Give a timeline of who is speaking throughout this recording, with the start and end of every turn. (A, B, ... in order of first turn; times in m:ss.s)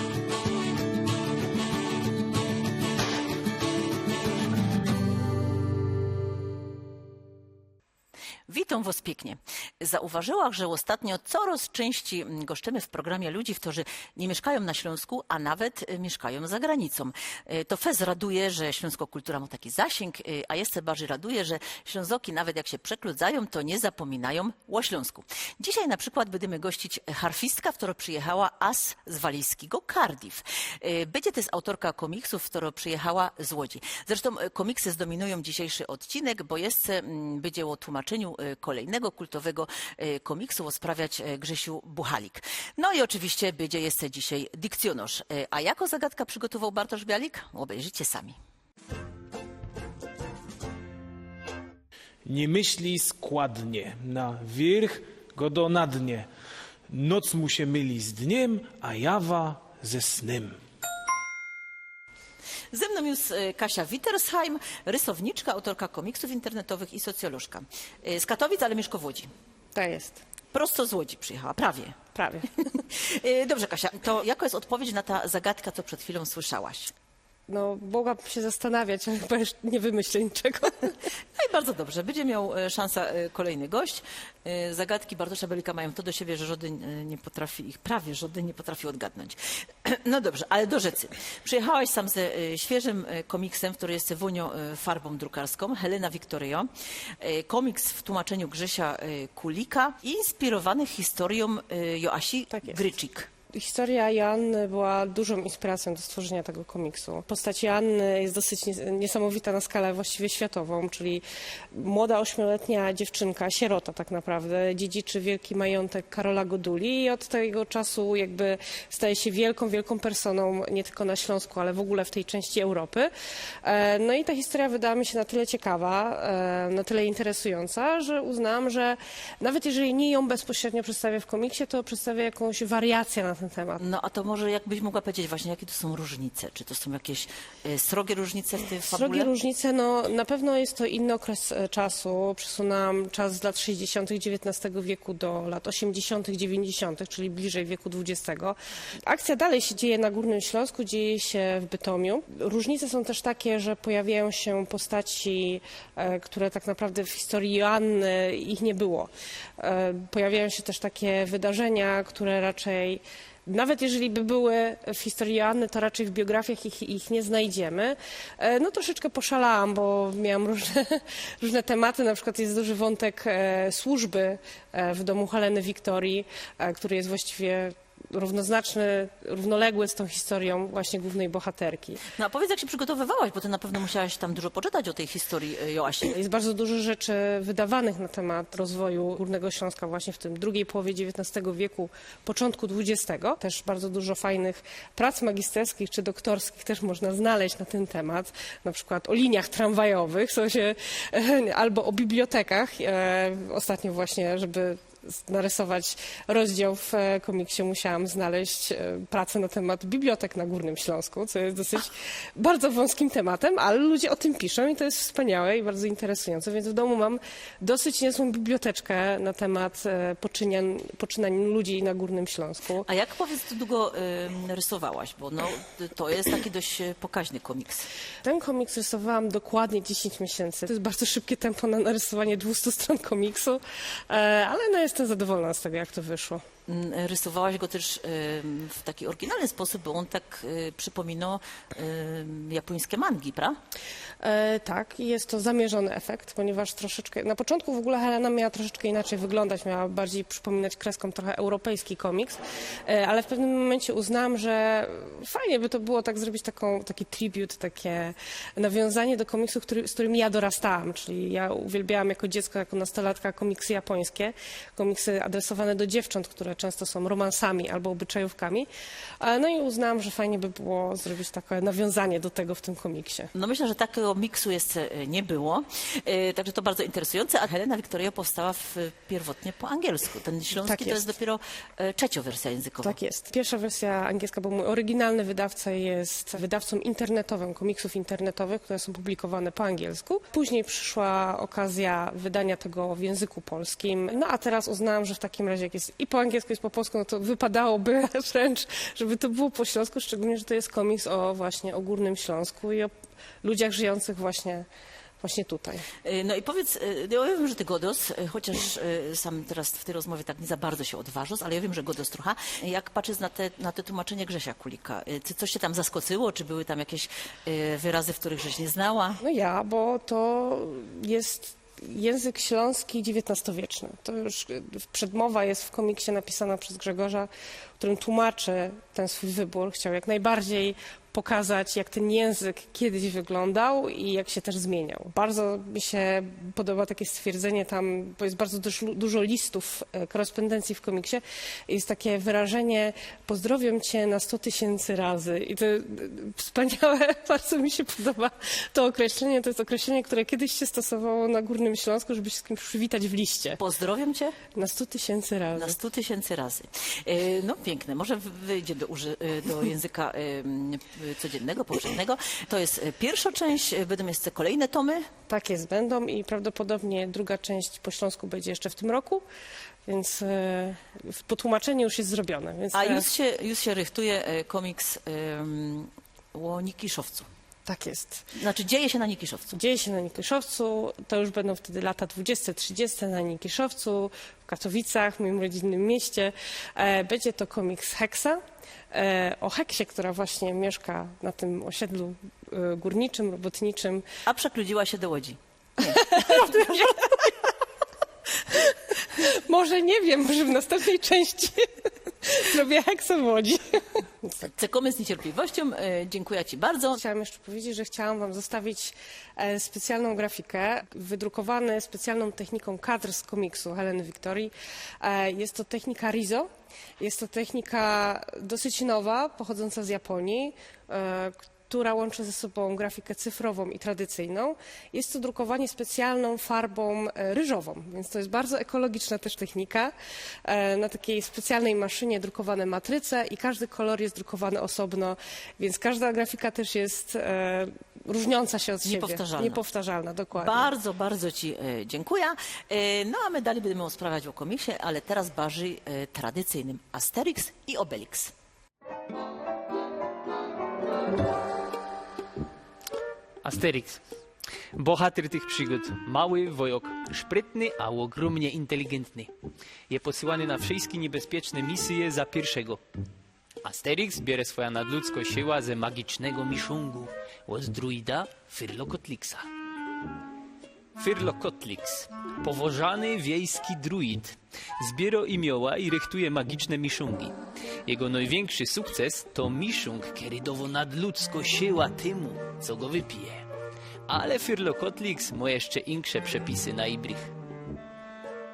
0:08.5-0:48.4 A
0:52.2-0:56.3 B
0:56.9-1:00.6 B
1:02.7-1:09.3 A
1:09.7-1:10.2 C
1:10.5-1:12.0 A
1:12.1-1:12.5 C
1:12.7-1:16.9 A
1:17.5-1:21.0 C
1:21.4-1:43.3 A
1:42.5-1:42.8 C
1:43.5-2:03.1 C
2:03.6-2:13.8 C
2:13.8-2:19.3 A
2:18.9-3:02.0 C
3:02.1-3:06.1 A
3:06.1-3:42.9 C
3:42.8-3:47.9 A
3:48.2-3:56.4 C
3:56.7-4:03.6 A
4:04.2-4:28.7 C
4:29.2-4:33.3 C
4:33.3-4:43.0 A
4:40.6-4:41.0 C
4:42.8-5:02.9 C
5:03.4-5:04.7 C
5:05.2-5:05.8 C
5:06.0-5:19.2 A
5:19.2-5:53.6 C
5:53.6-5:54.4 A
5:54.5-5:55.8 C
5:55.6-6:05.1 A
6:05.3-6:09.2 C
6:09.8-6:13.1 C
6:12.7-6:17.3 A
6:17.6-6:18.3 C
6:18.4-6:19.6 A
6:19.5-6:28.4 C
6:28.9-6:34.1 C
6:34.2-6:37.0 A
6:35.8-6:37.3 C
6:38.5-6:44.0 C
6:44.5-6:47.0 A
6:47.0-7:09.9 C
7:10.4-7:20.7 C
7:18.8-7:19.6 A
7:20.3-7:28.3 A
7:33.4-7:34.0 D
7:34.8-7:39.3 D
7:39.9-7:42.8 D
7:43.6-7:49.4 D
7:51.0-7:57.3 D
7:57.8-8:03.4 D
8:04.1-8:07.3 D